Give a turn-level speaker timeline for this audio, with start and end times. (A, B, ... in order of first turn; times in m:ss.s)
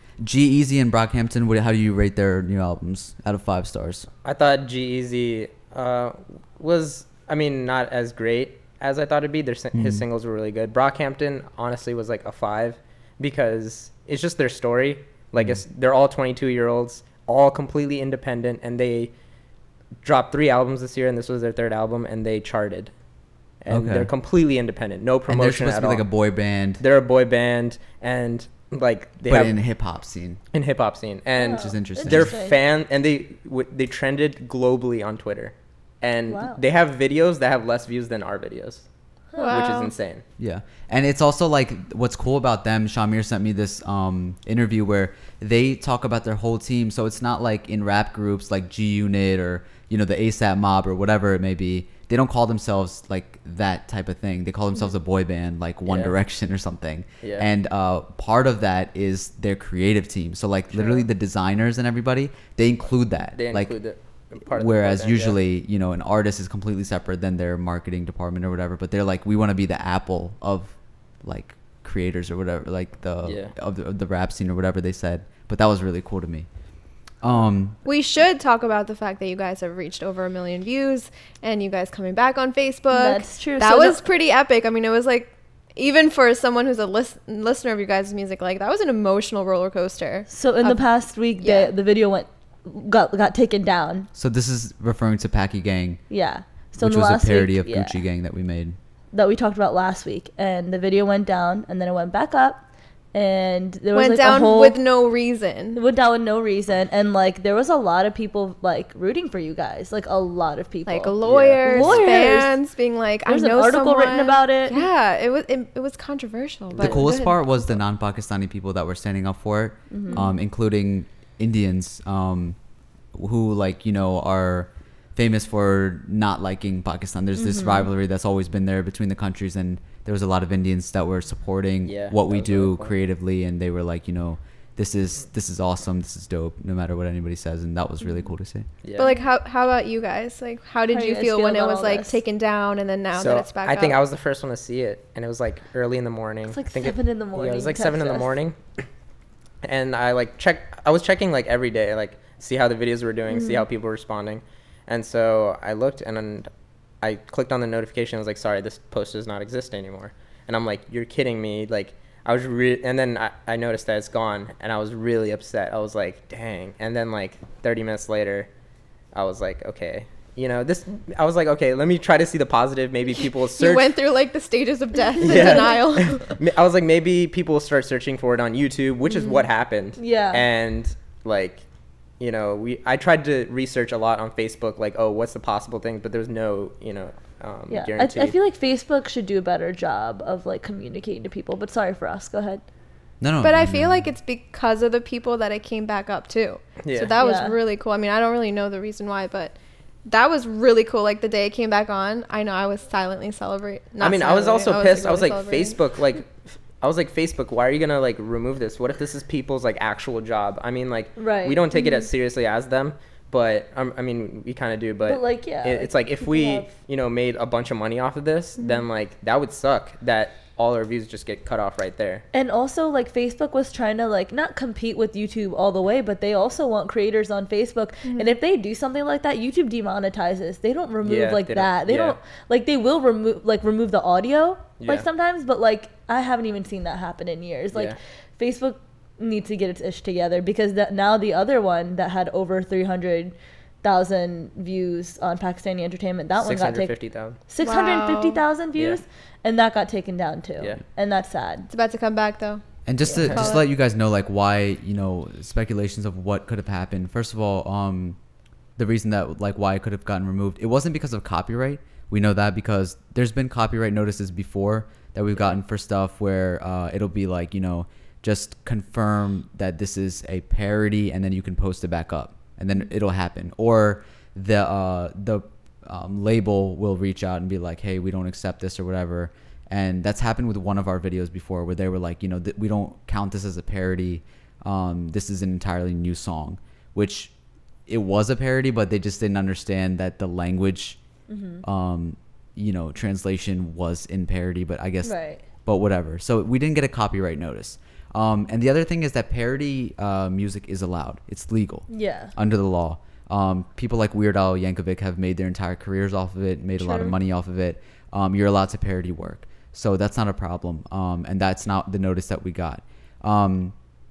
0:00.2-0:04.1 A
0:04.2-0:19.1 B
0:09.7-0:10.0 A
0:20.0-0:22.9 B
0:23.6-0:26.1 B
0:23.7-0:24.1 A
0:25.3-0:26.8 A
0:26.8-0:29.6 B
0:29.2-0:30.4 A
0:30.5-0:38.9 B
0:31.4-0:32.6 C
0:31.5-0:32.4 A
0:36.3-0:36.6 C
0:39.3-0:39.7 C
0:39.4-0:39.9 D
0:39.4-0:40.2 B
0:40.4-1:03.8 A
0:55.9-0:56.1 B
0:57.2-0:57.5 B
1:00.7-1:01.0 B
1:03.3-1:05.4 B
1:04.5-1:16.5 A
1:13.2-1:13.5 B
1:17.2-1:17.8 A
1:17.8-1:30.9 D
1:22.9-1:24.0 C
1:30.3-1:34.1 C
1:31.4-1:31.7 D
1:34.2-1:36.0 A
1:36.1-1:38.0 C
1:36.8-1:38.8 A
1:39.1-1:44.8 C
1:43.9-1:45.8 D
1:45.8-1:52.6 C
1:50.9-1:57.5 D
1:51.2-1:52.3 B
1:53.3-1:54.9 C
1:56.8-1:57.0 B
1:56.8-2:02.6 A
1:59.9-2:00.3 C
2:03.1-2:18.7 A
2:07.4-2:07.9 C
2:11.8-2:13.0 B
2:18.8-2:19.1 B
2:19.0-2:24.0 D
2:20.9-2:22.2 C
2:23.1-2:28.8 B
2:26.5-2:28.3 C
2:29.6-2:36.5 B
2:33.3-2:33.7 C
2:37.0-2:48.5 B
2:49.1-2:54.0 B
2:53.6-2:56.4 D
2:55.2-3:01.6 B
2:55.3-2:55.6 C
2:59.1-2:59.4 D
3:00.0-3:00.5 C
3:02.2-3:08.4 B
3:07.7-3:12.6 C
3:13.2-3:14.1 A
3:13.4-3:25.8 D
3:16.8-3:17.2 B
3:17.2-3:17.6 C
3:24.0-3:42.3 B
3:31.2-3:31.9 C
3:35.0-3:36.7 C
3:42.3-4:07.0 C
3:48.1-3:48.3 D
3:51.0-3:52.2 B
3:54.8-3:55.1 B
4:06.4-4:07.4 B
4:07.5-4:11.7 C
4:07.6-4:08.4 D
4:11.7-4:12.6 D
4:12.9-4:18.2 A
4:13.2-4:13.6 D
4:13.2-4:13.5 B
4:18.8-4:47.3 A
4:47.9-4:51.0 A
4:51.3-4:51.6 C
4:51.6-5:13.8 A
4:55.0-4:55.4 C
5:01.9-5:02.3 C
5:06.8-5:07.2 C